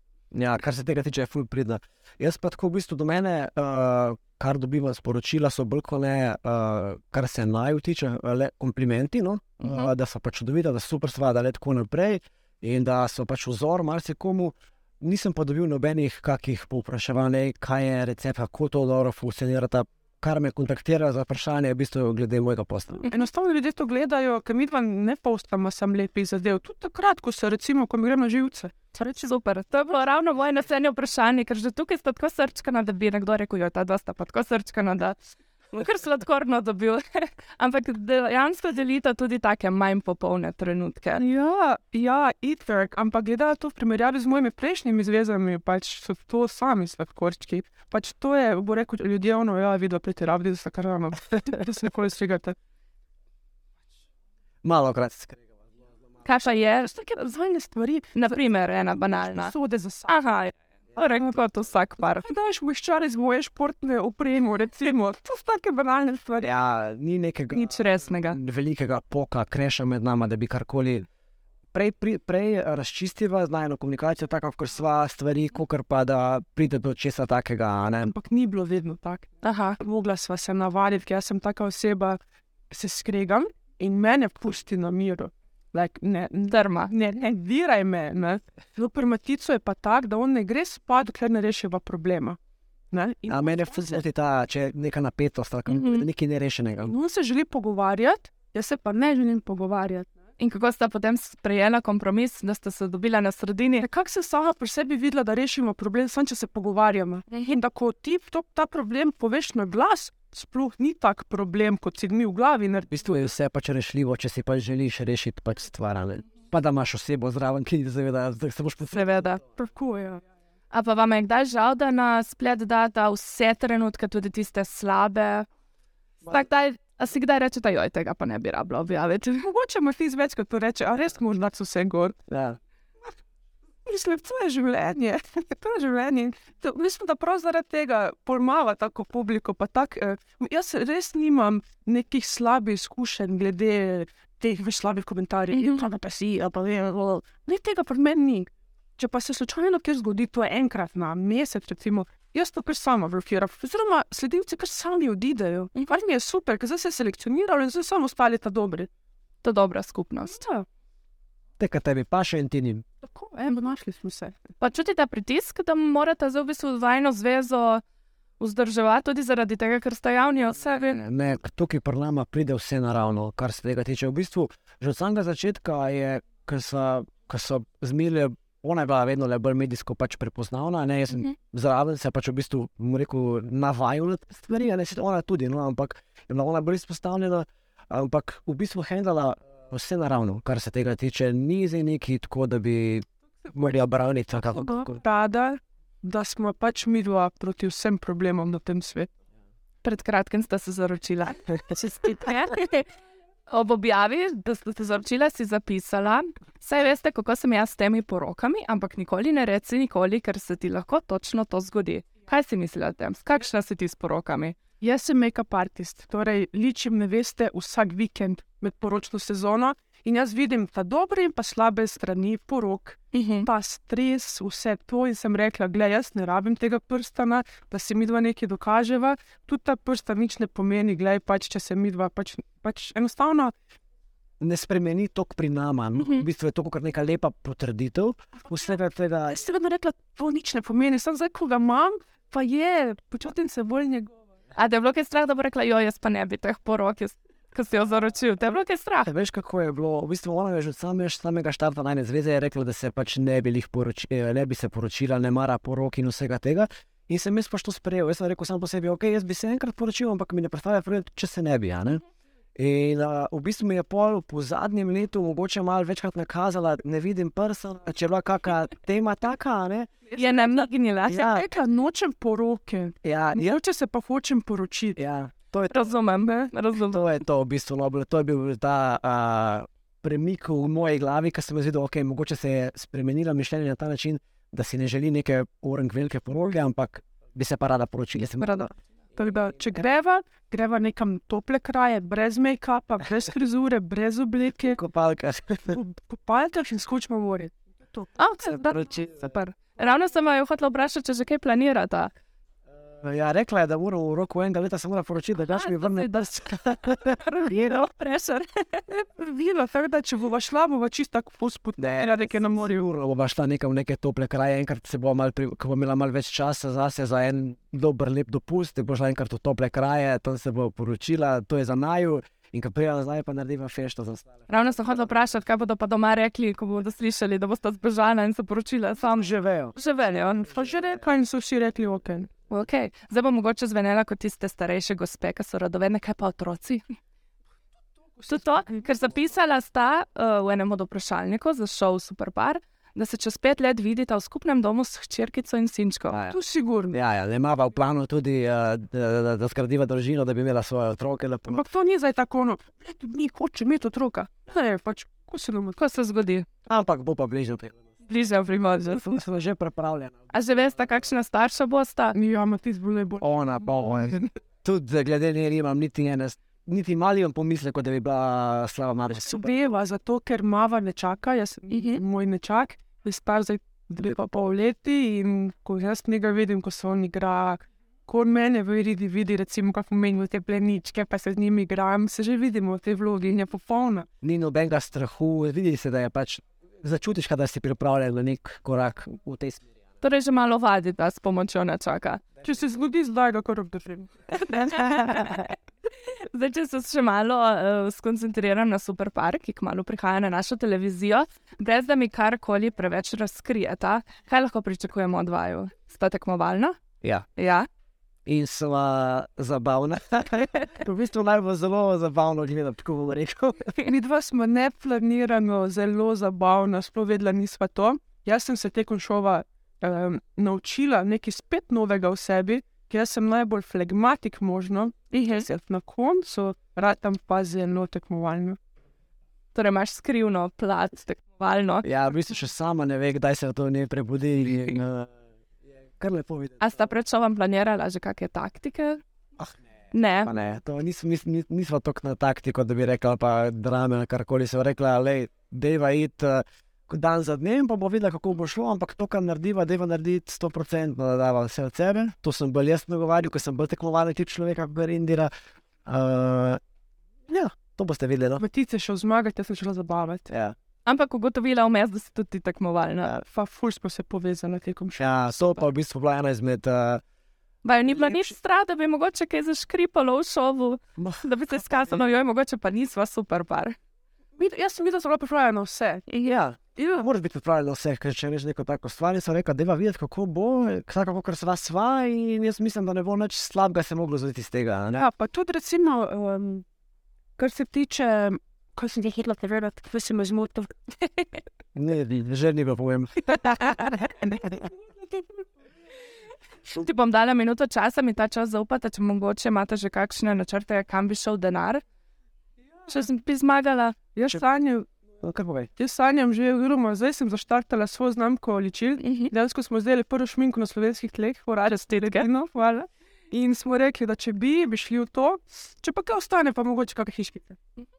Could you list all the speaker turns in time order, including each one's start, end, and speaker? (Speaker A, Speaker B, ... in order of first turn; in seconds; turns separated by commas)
Speaker A: 0.3-23.1, Speaker B: 9.6-9.9, Speaker C: 23.1-29.3, Speaker B: 29.0-35.2, Speaker B: 35.7-41.2, Speaker C: 41.2-52.5, Speaker A: 54.6-55.4, Speaker B: 56.2-56.9, Speaker C: 56.8-58.4, Speaker B: 58.1-59.5, Speaker C: 59.2-60.1, Speaker B: 60.1-62.3, Speaker C: 62.2-66.5, Speaker A: 66.4-67.8, Speaker B: 67.5-68.4, Speaker A: 68.3-71.1, Speaker A: 71.7-78.1, Speaker C: 78.1-82.2, Speaker B: 79.4-79.8, Speaker C: 82.7-92.4, Speaker B: 86.5-86.9, Speaker C: 92.9-94.0, Speaker A: 93.3-96.9, Speaker B: 95.7-96.1, Speaker C: 96.8-100.1, Speaker B: 100.4-103.9, Speaker C: 103.8-112.9, Speaker A: 112.9-119.3, Speaker B: 118.9-119.4, Speaker C: 119.5-120.2, Speaker B: 120.7-125.5, Speaker B: 126.2-129.5, Speaker C: 129.4-132.2, Speaker A: 132.3-132.6, Speaker C: 133.9-158.9, Speaker B: 145.5-145.8, Speaker B: 159.4-160.4, Speaker C: 160.3-160.7, Speaker A: 161.6-162.8, Speaker C: 163.0-164.4, Speaker B: 164.6-167.8, Speaker B: 168.4-171.0, Speaker A: 171.0-195.0, Speaker C: 194.7-199.1, Speaker B: 199.8-202.9, Speaker C: 201.8-202.5, Speaker B: 203.5-214.6, Speaker C: 214.8-233.5, Speaker B: 223.1-223.5, Speaker A: 234.4-239.4, Speaker B: 236.0-236.2, Speaker C: 239.4-244.1, Speaker B: 244.6-249.1, Speaker A: 249.1-262.0, Speaker A: 262.6-269.9, Speaker B: 270.1-271.4, Speaker C: 271.1-275.0, Speaker A: 271.1-271.4, Speaker A: 273.0-273.6, Speaker A: 275.0-275.9, Speaker B: 275.7-277.0, Speaker C: 276.2-276.5, Speaker A: 276.9-288.7, Speaker B: 288.2-288.7, Speaker C: 289.2-294.8, Speaker A: 294.7-295.8, Speaker C: 295.7-298.6, Speaker B: 298.2-302.1, Speaker A: 298.5-299.2, Speaker A: 303.0-307.8, Speaker B: 305.6-306.1, Speaker B: 307.2-308.8, Speaker C: 308.9-312.7, Speaker A: 311.8-324.3, Speaker B: 324.5-330.5, Speaker A: 329.1-329.8, Speaker C: 330.5-332.3, Speaker B: 332.5-336.8, Speaker B: 338.2-346.2, Speaker A: 346.1-346.4, Speaker C: 346.3-347.0, Speaker A: 346.9-351.6, Speaker C: 351.5-355.8, Speaker B: 355.8-356.5, Speaker A: 356.7-357.7, Speaker B: 358.1-359.2, Speaker A: 359.0-360.1, Speaker B: 360.3-362.2, Speaker C: 362.1-364.3, Speaker A: 363.2-369.5, Speaker C: 369.3-384.1, Speaker B: 371.7-372.0, Speaker A: 384.2-389.6, Speaker B: 390.0-392.2, Speaker C: 392.4-394.1, Speaker B: 394.3-406.8, Speaker B: 407.4-407.7, Speaker A: 408.3-413.7, Speaker C: 413.9-428.6, Speaker B: 429.5-431.9, Speaker A: 431.8-435.1, Speaker A: 436.0-436.6, Speaker B: 436.6-439.0, Speaker B: 439.9-440.3, Speaker A: 440.2-455.3, Speaker A: 455.9-456.6, Speaker A: 457.3-458.4, Speaker C: 458.4-460.3, Speaker A: 460.3-460.6, Speaker B: 460.9-463.1, Speaker C: 463.2-465.6, Speaker A: 465.0-467.0, Speaker B: 467.6-473.8, Speaker A: 467.9-468.3, Speaker A: 471.0-471.9, Speaker C: 474.4-476.0, Speaker A: 476.1-485.1, Speaker C: 476.8-477.1, Speaker C: 485.0-486.6, Speaker C: 487.4-490.7, Speaker A: 491.8-494.7, Speaker B: 496.7-501.8, Speaker B: 502.9-504.0, Speaker C: 504.1-504.9, Speaker A: 505.2-505.7, Speaker C: 505.8-517.6, Speaker B: 509.0-509.3, Speaker B: 511.9-512.3